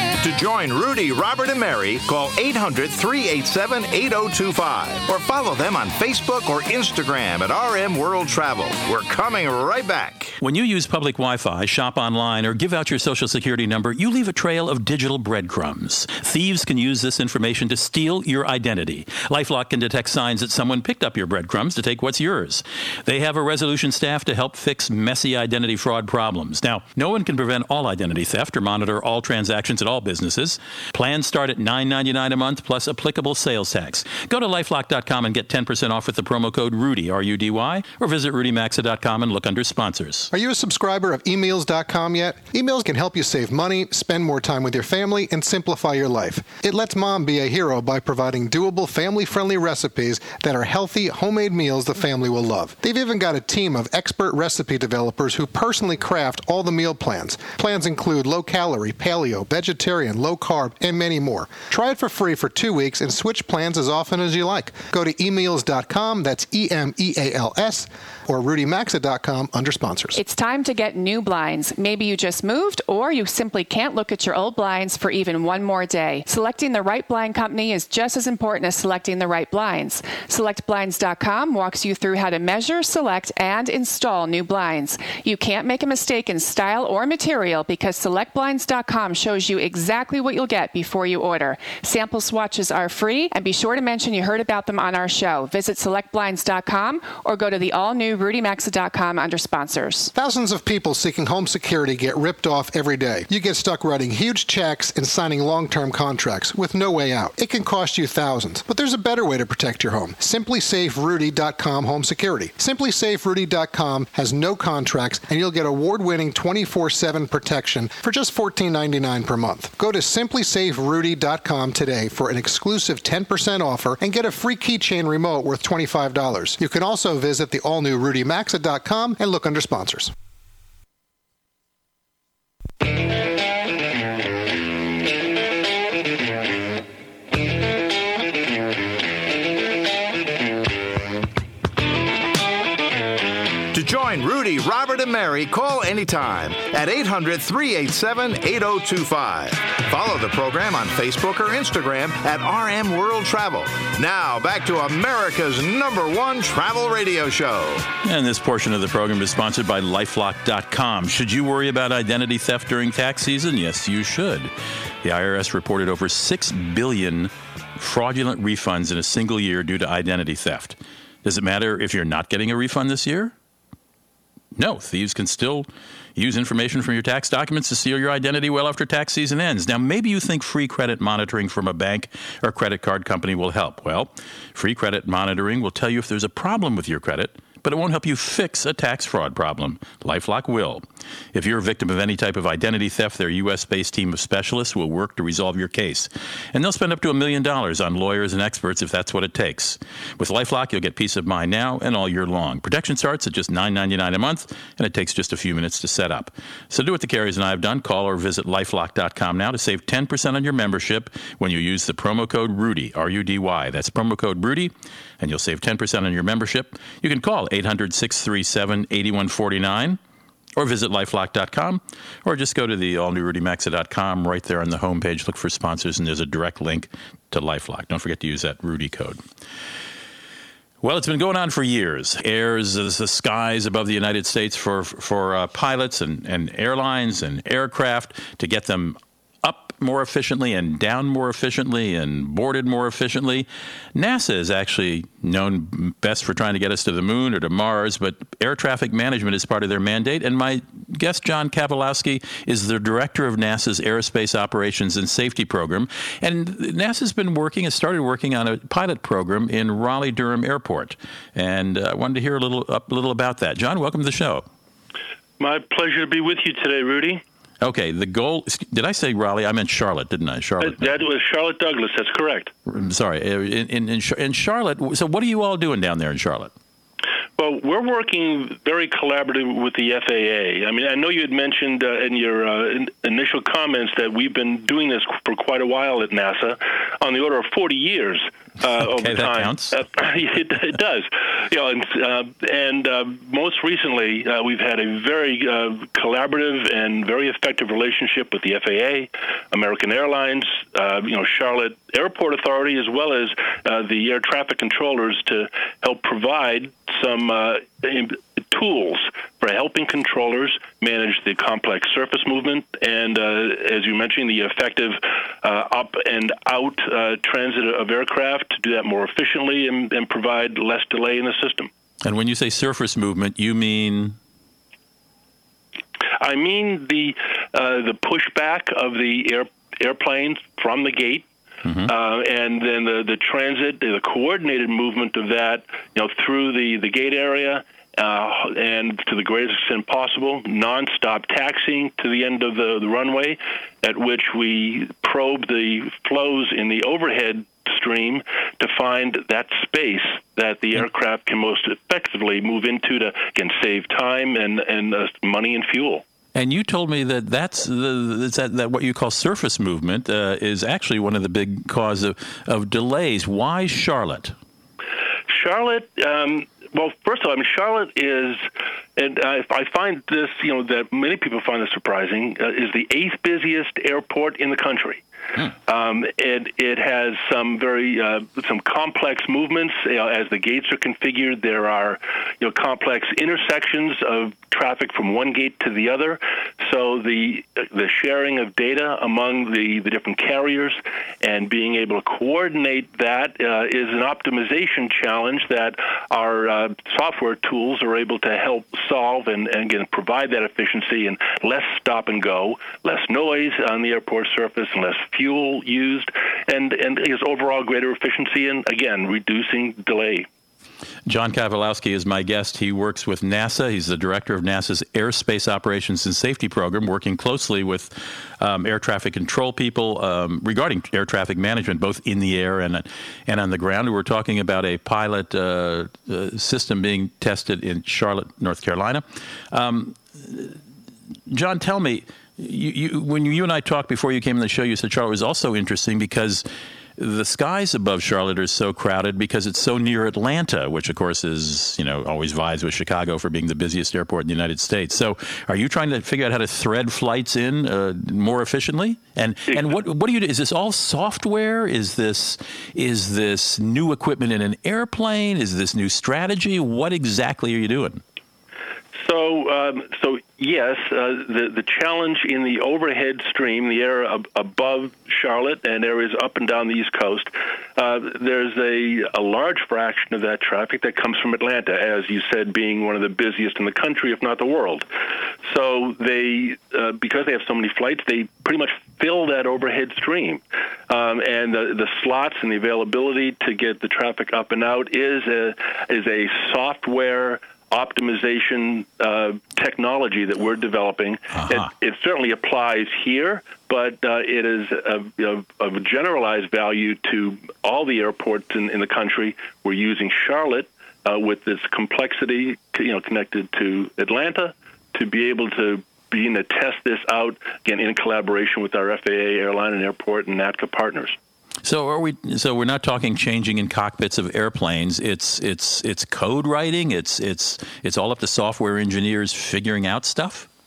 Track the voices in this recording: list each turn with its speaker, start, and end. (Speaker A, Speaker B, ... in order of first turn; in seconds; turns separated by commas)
Speaker A: 0.2-10.3, Speaker B: 10.4-40.3, Speaker C: 40.3-70.2, Speaker D: 70.1-100.1, Speaker C: 100.1-130.1, Speaker A: 143.7-157.9, Speaker B: 158.0-173.3, Speaker B: 174.5-220.0, Speaker B: 220.6-229.2, Speaker B: 230.8-264.4, Speaker E: 265.4-267.2, Speaker B: 267.6-271.0, Speaker E: 270.6-272.5, Speaker B: 272.7-276.5, Speaker E: 277.4-321.7, Speaker B: 288.8-289.8, Speaker B: 322.0-324.2, Speaker E: 326.2-331.3, Speaker B: 331.6-331.9, Speaker E: 331.8-356.0, Speaker B: 356.3-364.4, Speaker E: 365.3-368.4, Speaker E: 368.9-410.3, Speaker B: 411.1-430.6, Speaker B: 431.3-436.4, Speaker B: 437.0-458.0, Speaker E: 449.5-449.7, Speaker E: 458.9-474.9, Speaker E: 475.4-511.2, Speaker B: 511.6-520.5